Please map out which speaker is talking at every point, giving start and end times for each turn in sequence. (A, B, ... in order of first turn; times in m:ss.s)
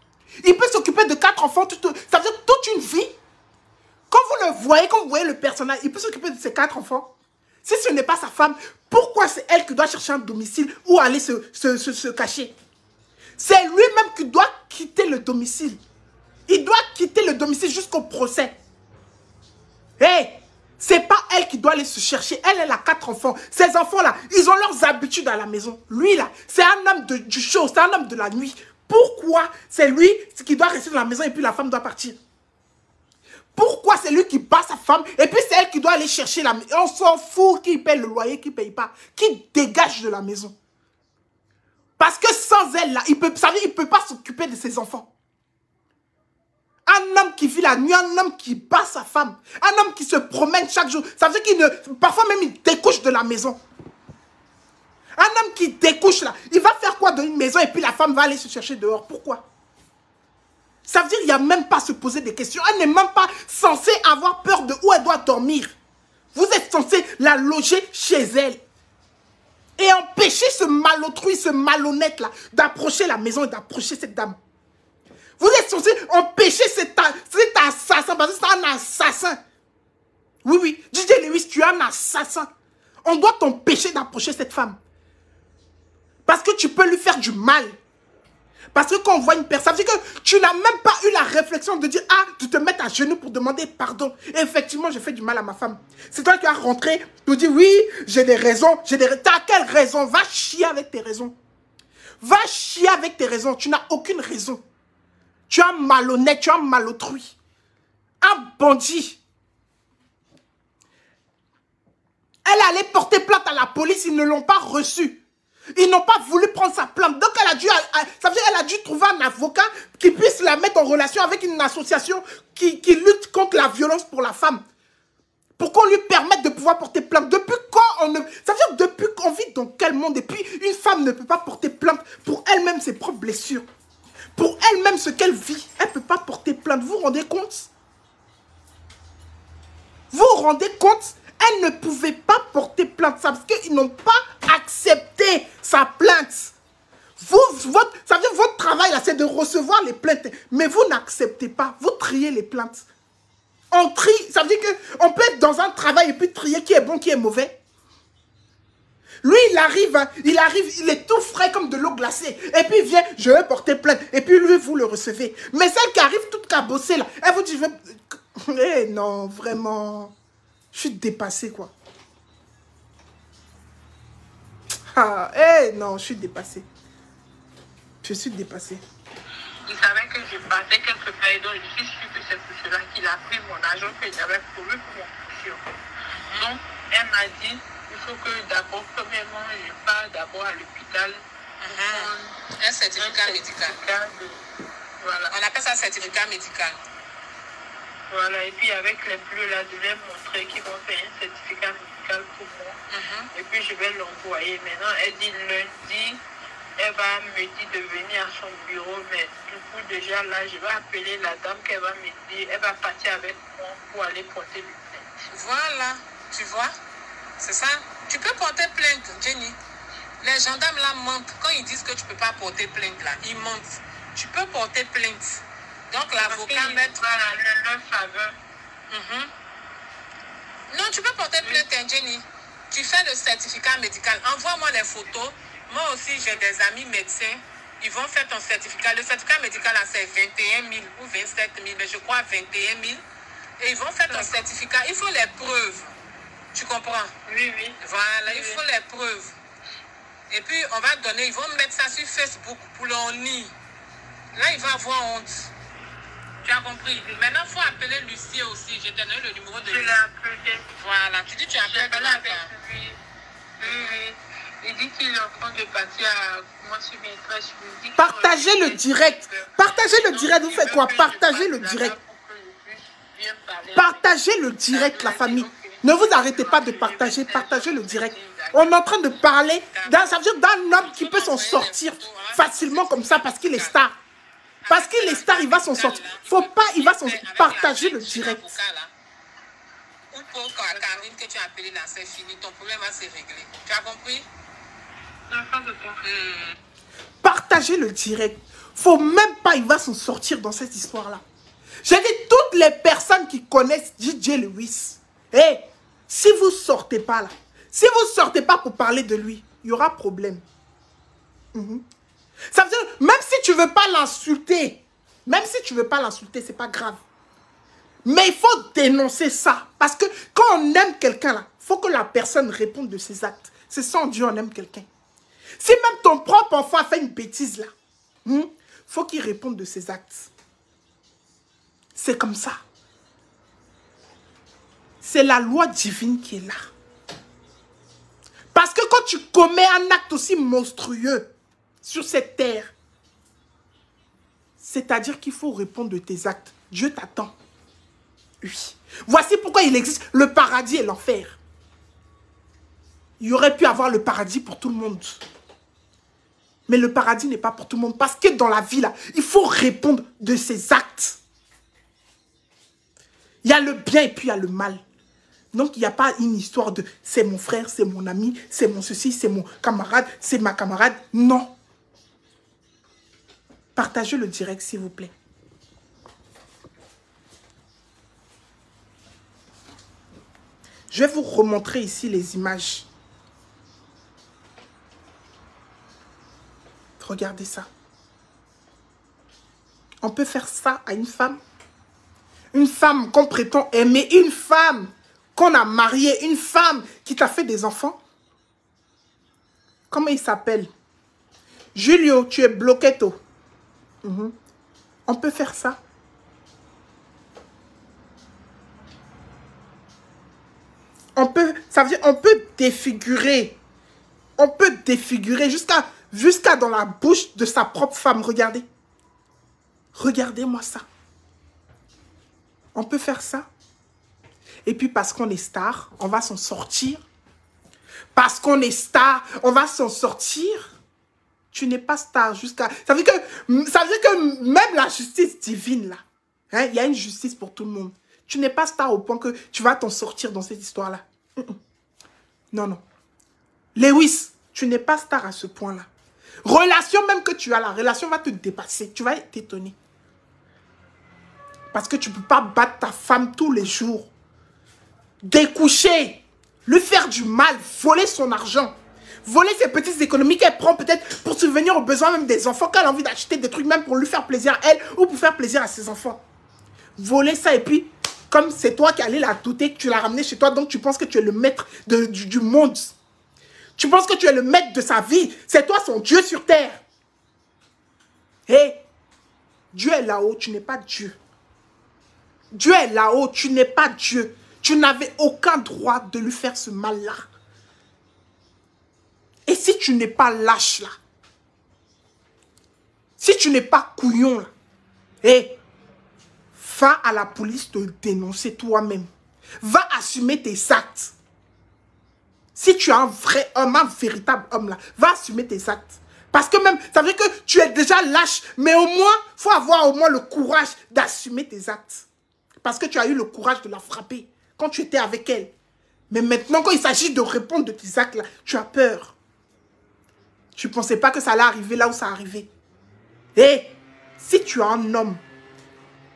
0:00.4-0:03.1 A
0:04.1-0:07.1 A
0:07.6-0:12.5 A
0:13.4-0:15.8 A
0:16.5-0:18.6 A
0:20.0-0:32.2 A
0:33.5-0:40.5 A
0:42.0-0:45.1 A
0:46.8-0:53.6 A
0:55.2-0:59.4 A
1:00.8-1:05.7 A
1:06.3-1:08.6 A
1:09.8-1:14.4 A
1:15.4-1:19.4 A
1:20.4-1:22.5 A
1:23.0-1:24.8 A
1:26.2-1:27.8 A
1:28.7-1:41.4 A
1:42.2-1:44.6 A
1:45.5-1:47.4 A
1:48.2-1:49.2 A
1:52.4-1:55.2 A
1:55.7-2:04.6 A
2:05.6-2:13.6 A
2:14.4-2:17.7 A
2:20.1-2:26.5 A
2:27.2-2:32.8 A
2:33.7-2:37.6 A
2:39.2-2:50.1 A
2:50.7-2:51.7 A
2:54.9-2:56.7 A
2:58.0-2:58.8 A
2:59.7-3:05.6 B
3:06.1-3:06.5 C
3:06.3-3:12.4 B
3:11.6-3:13.8 C
3:13.0-3:14.4 B
3:15.0-3:15.4 B
3:15.3-3:16.8 C
3:18.1-3:22.8 B
3:22.9-3:23.3 C
3:23.3-3:26.2 B
3:26.8-3:35.3 B
3:35.3-3:36.7 C
3:37.4-3:39.6 C
3:40.2-3:47.0 C
3:46.1-3:48.4 B
3:48.9-3:49.3 C
3:50.7-4:03.0 C
4:03.6-4:05.9 C
4:04.1-4:04.4 B
4:06.5-4:07.1 C
4:07.2-4:08.6 B
4:07.8-4:09.3 C
4:10.3-4:13.5 C
4:14.3-4:15.5 C
4:16.4-4:20.0 C
4:19.6-4:20.7 B
4:20.8-4:22.5 C
4:21.6-4:23.0 B
4:23.6-4:34.1 B
4:23.6-4:24.0 C
4:28.0-4:32.0 A
4:33.7-4:43.9 A
4:34.7-4:38.8 B
4:39.7-4:40.1 C
4:40.7-4:43.8 C
4:44.6-4:48.9 C
4:44.7-4:48.5 A
4:50.1-4:54.3 C
4:50.7-4:51.0 B
4:55.3-4:56.1 B
4:56.1-4:56.4 C
4:57.2-5:01.2 A
5:01.8-5:10.4 A
5:11.5-5:11.8 A
5:12.5-5:17.0 A
5:18.0-5:24.8 A
5:25.6-5:27.7 A
5:28.2-5:30.3 A
5:31.9-5:32.6 A
5:35.0-5:36.7 A
5:38.5-5:41.3 A
5:41.8-5:42.7 A
5:44.6-5:47.4 A
5:48.4-5:51.4 A
5:53.2-5:55.2 A
5:56.7-6:01.2 A
6:03.4-6:04.8 A
6:05.5-6:11.5 A
6:13.7-6:15.1 A
6:20.9-6:22.9 A
6:27.0-6:27.7 A
6:30.0-6:31.4 A
6:32.5-6:38.0 A
6:39.9-6:40.7 A
6:41.7-6:43.2 A
6:44.0-6:44.3 A
6:45.1-6:45.8 A
6:51.2-6:53.6 A
6:54.4-6:58.6 A
6:59.9-7:00.8 A
7:02.7-7:03.5 A
7:04.6-7:07.0 A
7:08.2-7:10.7 A
7:11.5-7:21.6 A
7:22.5-7:22.8 A
7:23.8-7:25.9 A
7:26.4-7:29.8 A
7:31.7-7:34.1 A
7:35.2-7:38.7 A
7:39.2-7:46.2 A
7:47.0-7:52.9 A
7:53.8-7:56.8 A
7:58.5-7:58.8 A
7:59.7-8:01.2 A
8:02.5-8:07.3 A
8:09.5-8:10.9 A
8:13.2-8:14.5 A
8:15.2-8:15.6 A
8:16.6-8:19.1 A
8:19.6-8:21.1 A
8:22.5-8:32.0 A
8:32.6-8:35.5 A
8:36.1-8:39.2 A
8:40.6-8:42.5 A
8:43.4-8:45.2 A